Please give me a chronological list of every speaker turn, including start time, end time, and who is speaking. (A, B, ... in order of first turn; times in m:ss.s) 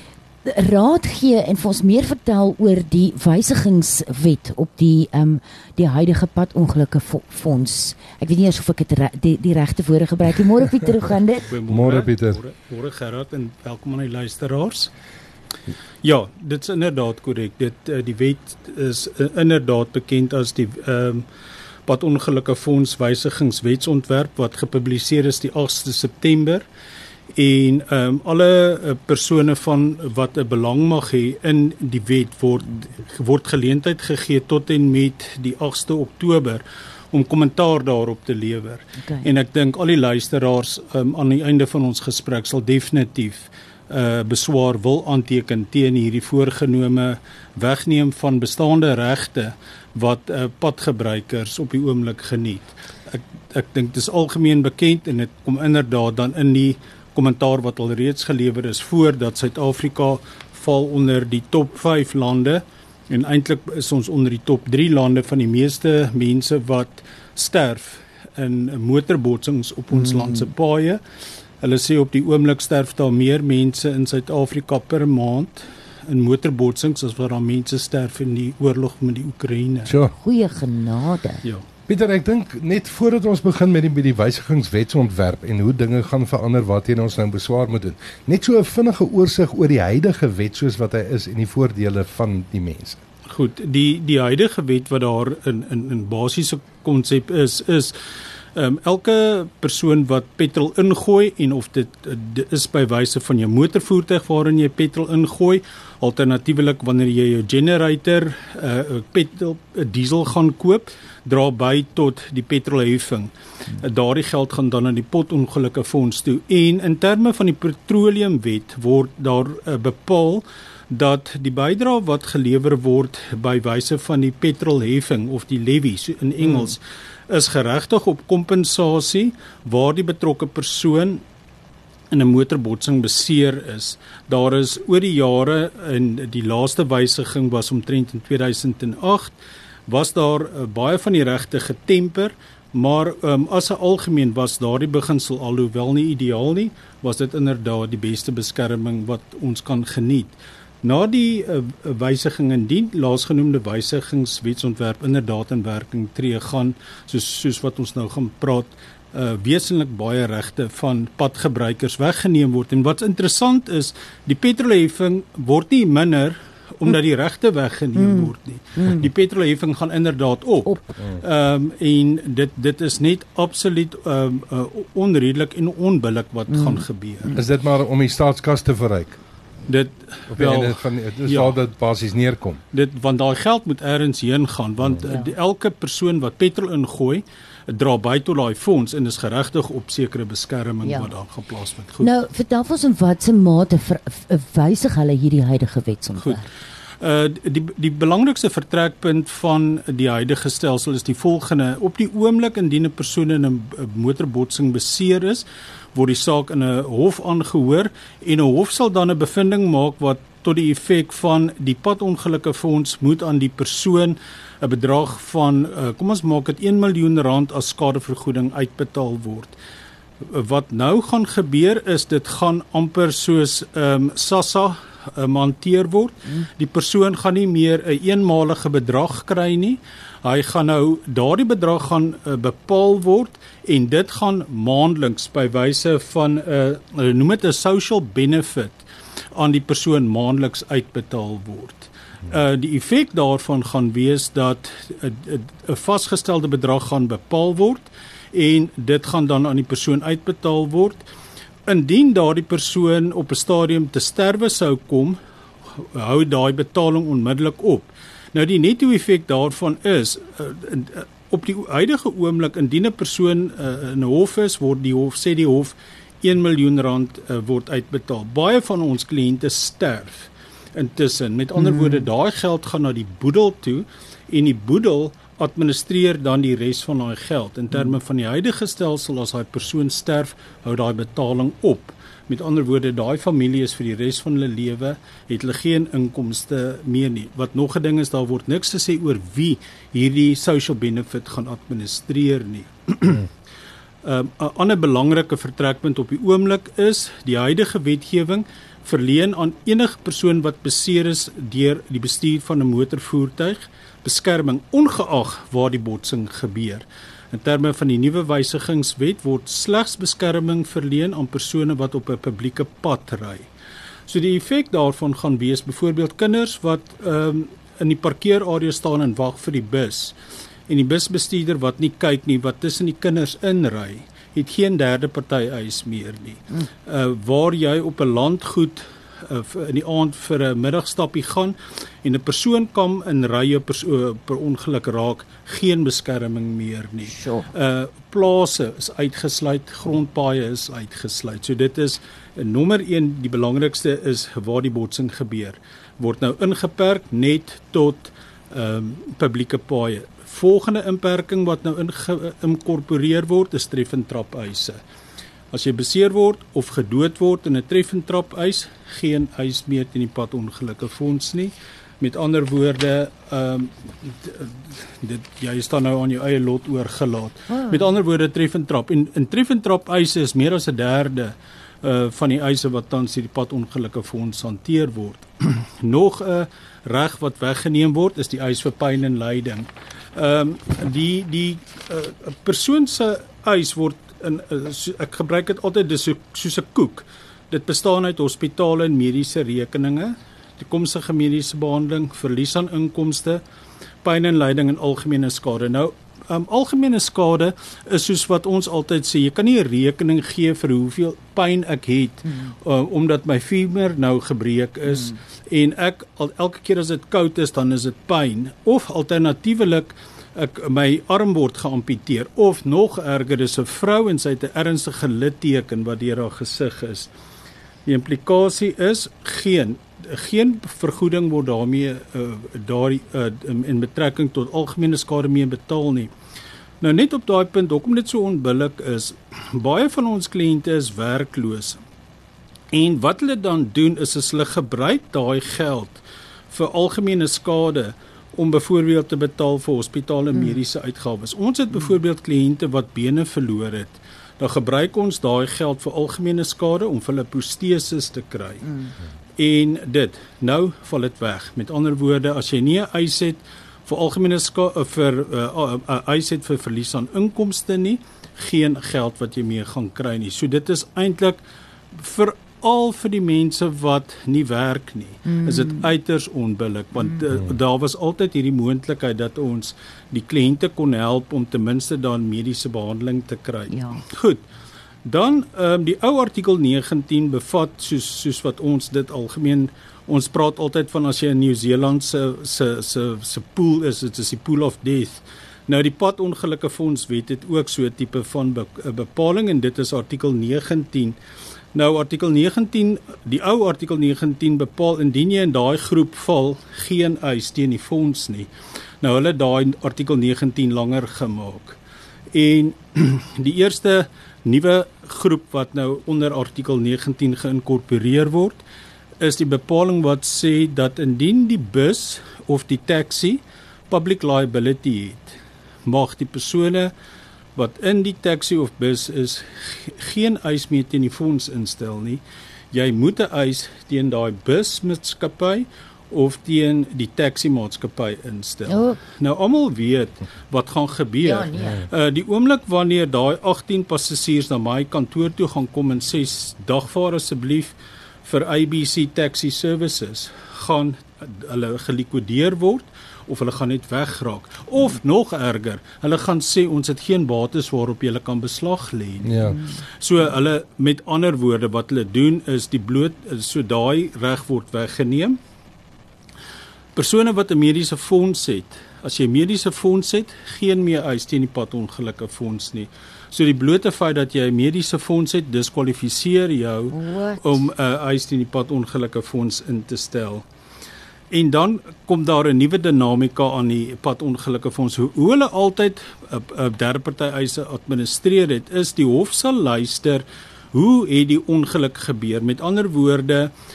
0:00.4-0:11.5 A
0:11.5-0:14.9 B
0:11.7-0:12.4 C
0:16.0-0:21.2 B
0:21.8-0:26.7 B
0:27.3-1:11.0 B
0:39.0-0:39.3 A
1:11.6-1:19.9 B
1:19.8-1:20.1 C
1:20.2-1:21.4 A
1:21.9-1:33.0 C
1:33.3-1:37.9 B
1:38.5-2:11.2 B
2:12.1-2:19.4 B
2:19.9-2:57.3 B
2:48.0-2:49.0 A
2:56.5-2:57.4 A
2:57.3-2:59.2 C
2:59.7-3:01.6 B
3:00.3-3:02.6 C
3:02.7-3:12.1 B
3:05.0-3:05.3 A
3:10.8-3:11.1 A
3:12.0-3:16.5 A
3:17.0-3:39.6 B
3:40.2-3:58.8 B
3:59.3-4:11.0 B
4:11.7-4:15.2 B
4:15.7-4:53.3 B
4:31.7-4:32.0 A
4:54.0-5:13.5 B
5:14.1-5:20.1 B
5:20.7-5:54.8 B
5:37.1-5:37.5 A
5:55.5-6:33.4 B
6:07.5-6:07.8 A
6:34.0-6:57.1 B
6:42.3-6:42.5 A
6:57.9-7:06.1 B
7:06.8-7:11.8 B
7:12.7-7:28.6 B
7:29.4-7:41.4 B
7:41.9-7:54.4 B
7:45.3-7:45.8 A
7:53.7-7:54.0 A
7:55.0-8:11.2 B
8:11.7-8:18.5 B
8:19.0-8:21.8 B
8:22.3-8:28.6 B
8:29.2-8:36.9 B
8:37.6-9:15.4 B
8:48.7-8:49.0 A
8:51.2-8:51.8 A
9:09.2-9:09.6 C
9:16.9-9:30.4 B
9:26.9-9:27.6 A
9:31.3-9:43.5 B